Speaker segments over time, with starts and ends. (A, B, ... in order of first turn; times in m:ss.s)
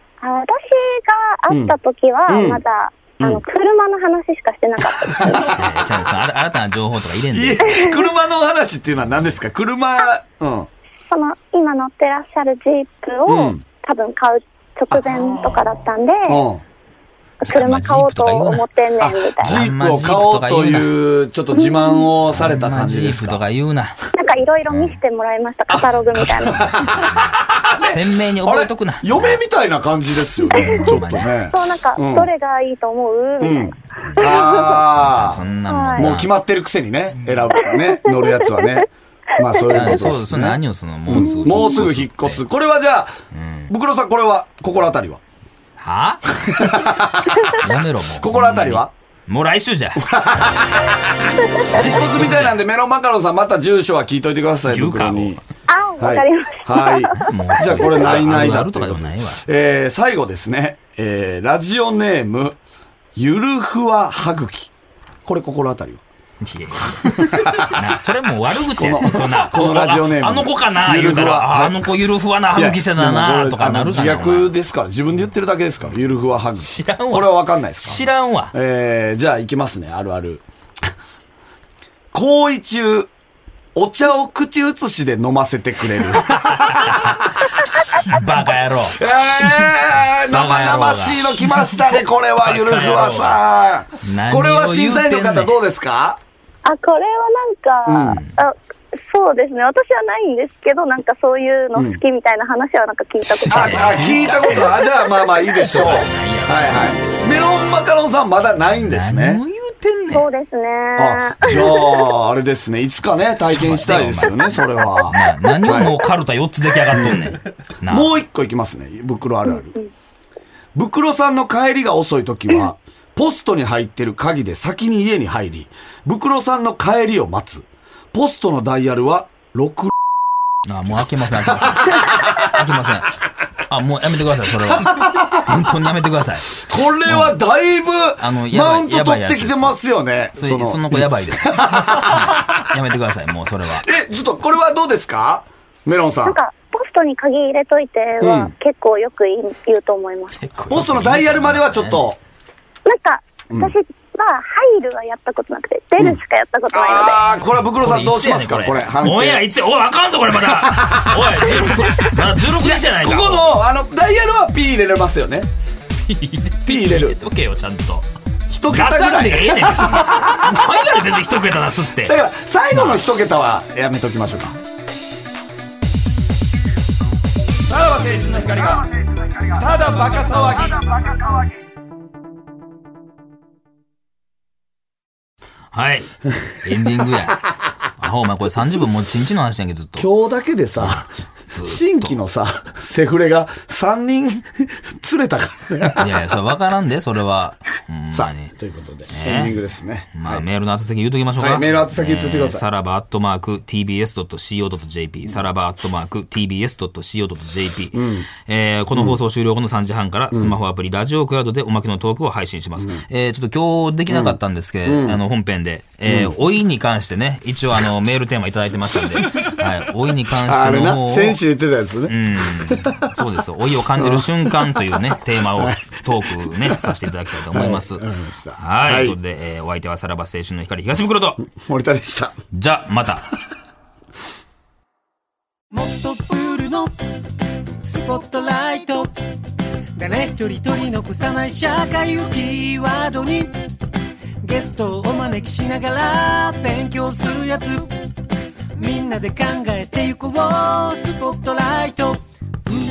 0:00.2-0:05.5 A
0:01.5-0:01.8 B
0:02.3-0:02.6 B
0:05.0-0:05.8 B
0:05.3-0:07.8 C
0:07.3-0:10.7 B
0:07.6-0:08.1 A
0:11.1-0:16.4 A
0:13.2-0:13.6 B
0:16.3-0:16.6 B
0:17.4-0:19.6 A
0:17.4-0:18.6 C
0:19.0-0:23.4 B
0:19.4-0:21.0 C
0:21.5-0:22.1 A
0:22.3-0:24.0 C
0:24.1-0:27.0 A
0:24.7-0:25.0 C
0:25.7-0:32.3 B
0:26.6-0:29.4 C
0:30.6-0:31.3 C
0:31.5-0:34.7 A
0:33.4-0:35.4 B
0:34.1-0:36.3 C
0:35.7-0:36.1 A
0:36.0-0:38.9 B
0:37.6-0:38.7 A
0:39.4-0:43.2 B
0:39.7-0:42.4 C
0:41.1-0:41.6 A
0:43.3-0:43.7 C
0:43.7-0:45.2 B
0:45.8-0:46.8 C
0:46.5-0:47.6 B
0:47.4-0:50.7 C
0:48.2-0:48.9 B
0:50.0-0:55.4 B
0:51.3-0:51.7 A
0:51.7-0:52.6 C
0:54.7-0:55.4 C
0:55.7-0:58.1 A
0:56.0-1:02.6 B
0:57.1-0:59.4 C
1:03.2-1:04.7 B
1:05.2-1:06.0 B
1:06.4-1:14.5 C
1:07.1-1:07.9 B
1:08.7-1:11.9 B
1:12.5-1:20.4 B
1:16.6-1:18.5 C
1:22.1-1:23.1 B
1:23.7-1:28.2 B
1:26.2-1:27.2 C
1:28.0-1:29.8 C
1:28.9-1:36.2 B
1:30.3-1:33.4 C
1:34.0-1:35.5 C
1:36.6-1:45.5 A
1:37.8-1:38.2 B
1:43.3-1:44.8 C
1:43.5-1:49.4 B
1:45.4-1:47.5 C
1:48.8-1:50.2 C
1:50.1-1:52.1 A
1:51.0-1:56.0 B
1:53.5-1:58.1 C
1:56.9-1:59.8 B
2:00.7-2:09.9 B
2:10.6-2:13.2 C
2:11.6-2:12.5 B
2:13.7-2:17.4 C
2:14.7-2:15.7 B
2:16.5-2:22.7 B
2:18.2-2:19.8 C
2:20.4-2:23.9 C
2:23.7-2:26.4 B
2:26.2-2:30.4 A
2:28.2-2:28.5 B
2:30.4-2:32.1 C
2:30.7-2:32.2 B
2:32.8-2:37.3 A
2:36.7-2:39.4 B
2:37.7-2:43.6 C
2:40.5-2:45.5 B
2:46.1-2:48.1 C
2:46.6-2:47.2 B
2:48.5-2:50.6 B
2:48.7-2:52.2 C
2:52.0-2:54.6 B
2:52.7-2:53.0 C
2:57.7-3:01.4 B
3:05.7-3:07.4 C
3:08.0-3:10.1 C
3:10.0-3:16.2 B
3:10.8-3:12.1 C
3:15.9-3:18.5 C
3:18.1-3:20.4 B
3:19.1-3:19.6 C
3:20.1-3:41.4 C
3:21.4-3:22.6 B
3:27.9-3:28.2 B
3:34.1-3:35.2 B
3:36.0-3:36.3 B
3:40.4-3:43.1 B
3:42.1-3:51.4 C
3:43.9-3:45.0 B
3:45.5-3:45.8 B
3:46.5-3:46.8 B
3:47.5-3:49.2 B
3:51.4-3:52.4 B
3:52.5-3:53.3 C
3:55.7-3:57.0 D
3:57.8-3:59.1 D
4:00.0-4:03.5 D
4:04.4-4:07.9 D
4:08.8-4:12.2 D